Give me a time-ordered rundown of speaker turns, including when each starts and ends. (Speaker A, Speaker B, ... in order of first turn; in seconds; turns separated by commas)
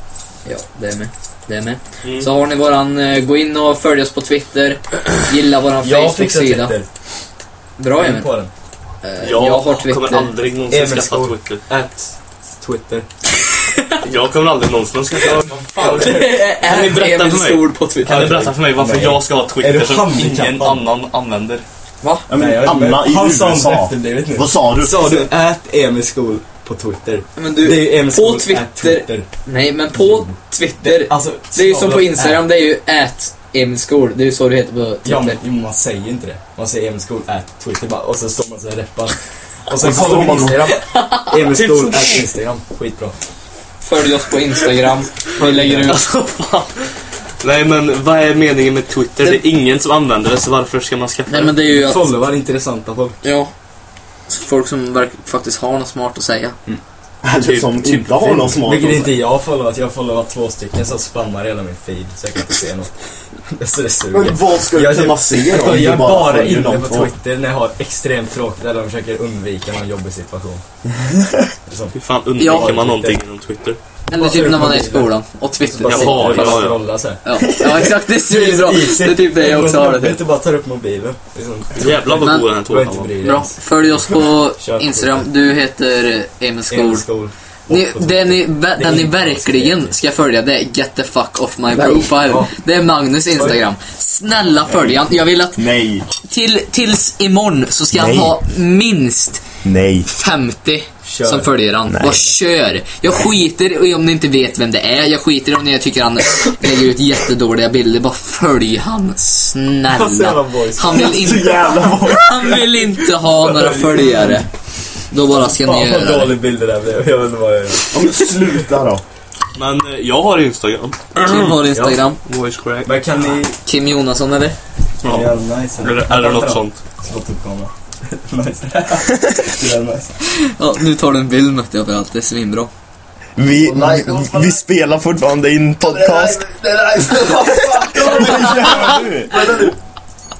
Speaker A: 0.4-6.7, Speaker B: 2.0-2.3, Speaker C: 5.8-6.9, Speaker A: 7.8-8.3, Speaker C: 8.0-8.5, Speaker A: 9.0-10.3, Speaker B: 9.2-11.6, Speaker C: 10.7-13.1, Speaker B: 14.0-21.6, Speaker C: 15.2-16.3, Speaker A: 15.7-18.4, Speaker C: 18.0-20.8, Speaker A: 22.0-22.3, Speaker D: 22.3-25.2, Speaker C: 22.3-29.3, Speaker A: 27.4-35.4, Speaker C: 29.9-32.4, Speaker C: 35.0-43.1, Speaker D: 39.7-40.6, Speaker A: 40.7-41.3, Speaker B: 41.4-42.2, Speaker A: 43.8-46.0, Speaker C: 45.4-46.0, Speaker B: 45.9-46.9, Speaker B: 47.4-51.5, Speaker A: 51.3-52.1, Speaker C: 51.6-53.2, Speaker A: 53.2-53.5, Speaker A: 54.3-56.6, Speaker D: 57.2-59.1, Speaker B: 57.4-58.6, Speaker C: 58.6-62.9, Speaker C: 63.5-70.6, Speaker D: 64.1-67.1, Speaker C: 71.7-73.2, Speaker B: 71.9-73.8, Speaker A: 72.4-72.8, Speaker A: 74.1-76.7, Speaker C: 74.1-77.2, Speaker B: 75.8-76.8, Speaker A: 77.2-80.2, Speaker C: 78.2-85.2, Speaker B: 81.8-83.1, Speaker A: 82.2-82.5, Speaker A: 83.2-87.0, Speaker C: 86.7-90.0, Speaker A: 87.7-99.5, Speaker C: 91.7-92.5, Speaker C: 93.3-93.6, Speaker D: 95.6-96.1, Speaker D: 97.9-98.4, Speaker D: 99.6-100.1, Speaker A: 100.1-114.5, Speaker C: 101.0-101.5, Speaker D: 101.9-102.2, Speaker C: 109.9-111.4, Speaker D: 110.9-112.7, Speaker C: 113.3-114.4, Speaker A: 115.1-116.3, Speaker C: 115.3-118.3, Speaker D: 117.9-119.0, Speaker B: 119.5-121.7, Speaker A: 121.2-122.2, Speaker C: 121.7-122.0, Speaker B: 122.2-123.0, Speaker C: 122.8-123.6, Speaker A: 123.6-124.6, Speaker B: 125.0-126.8, Speaker C: 125.0-130.2, Speaker A: 130.3-132.7, Speaker D: 133.3-136.4, Speaker C: 133.6-134.5, Speaker C: 135.9-139.7, Speaker D: 137.7-139.5, Speaker A: 138.0-138.9